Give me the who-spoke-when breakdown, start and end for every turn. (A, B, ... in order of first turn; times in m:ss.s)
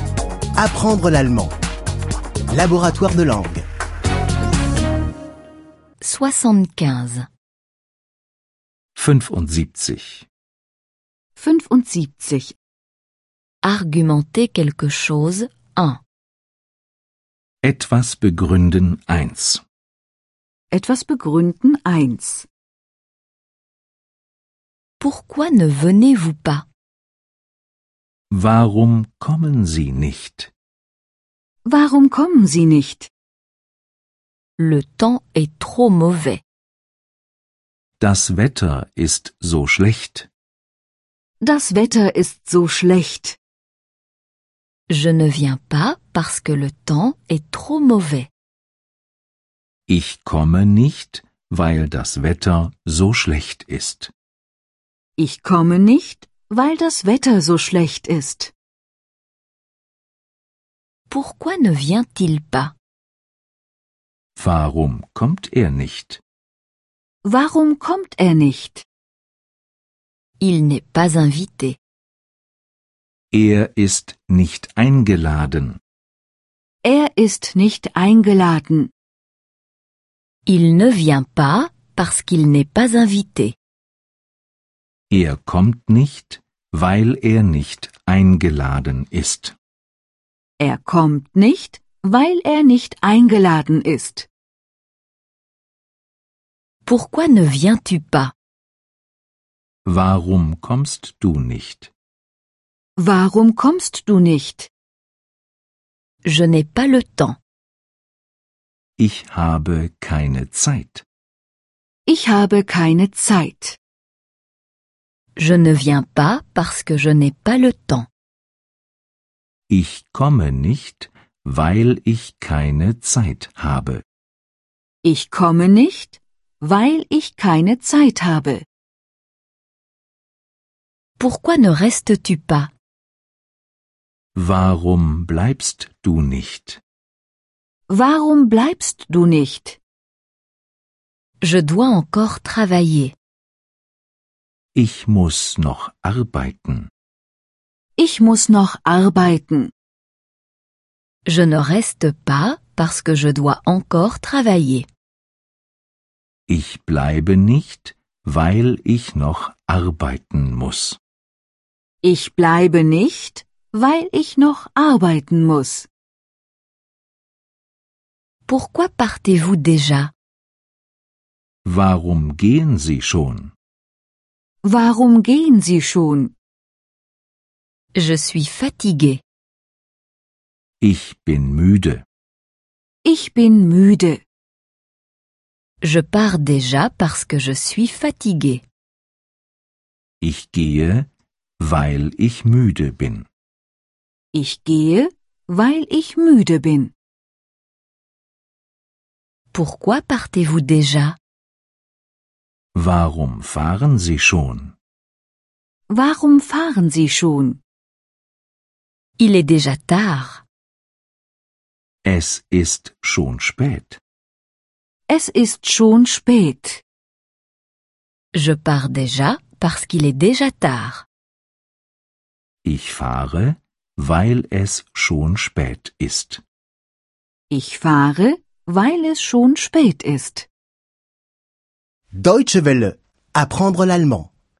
0:00.6-0:01.5 A
0:02.5-0:03.6 A
0:06.0-0:07.3 B
0:09.0-0:10.2 C
0:11.4-0:12.5 D
0:13.6-0:16.0 B
0:17.6-0:19.6 C
0:20.7-0:22.5 D
0:25.0-0:26.6 B
0:28.3-0:30.5 C
0:31.6-0:33.1 D
0:34.6-0:36.4 B
0:38.0-0:40.3 C
0:41.4-0:43.4 D
0:44.9-0:48.3 B
0:49.9-0:54.1 C
0:55.2-0:58.5 D
1:01.1-1:02.7 B
1:04.4-1:06.2 C
1:07.2-1:08.8 D
1:10.4-1:11.8 B
1:13.3-1:15.8 C
1:16.8-1:18.9 D
1:20.4-1:23.6 B
1:25.1-1:29.5 C
1:30.6-1:34.3 D
1:36.8-1:38.3 B
1:39.8-1:41.9 C
1:43.0-1:44.7 D
1:46.2-1:47.4 B
1:49.0-1:51.0 C
1:52.1-1:53.8 D
1:55.4-1:58.1 B
1:59.7-2:04.0 C
2:05.0-2:08.6 D
2:11.2-2:12.7 B
2:14.3-2:16.8 C
2:17.9-2:19.8 D
2:21.4-2:23.1 B
2:24.7-2:26.9 C
2:28.0-2:29.7 D
2:31.2-2:34.9 B
2:36.5-2:41.0 C
2:42.0-2:45.9 D
2:48.5-2:50.1 B
2:51.6-2:53.5 C
2:54.6-2:56.3 D
2:57.9-2:59.2 B
3:00.8-3:02.0 C
3:03.0-3:04.2 D
3:05.8-3:08.6 B
3:10.2-3:11.1 C
3:11.6-3:13.2 C
3:14.3-3:16.9 D
3:19.5-3:21.2 B
3:22.7-3:24.7 C
3:25.9-3:27.6 D
3:29.2-3:30.4 B
3:32.0-3:34.0 C
3:35.1-3:36.8 D
3:38.3-3:41.0 B
3:42.6-3:46.4 C
3:47.5-3:50.5 D
3:52.1-3:54.3 A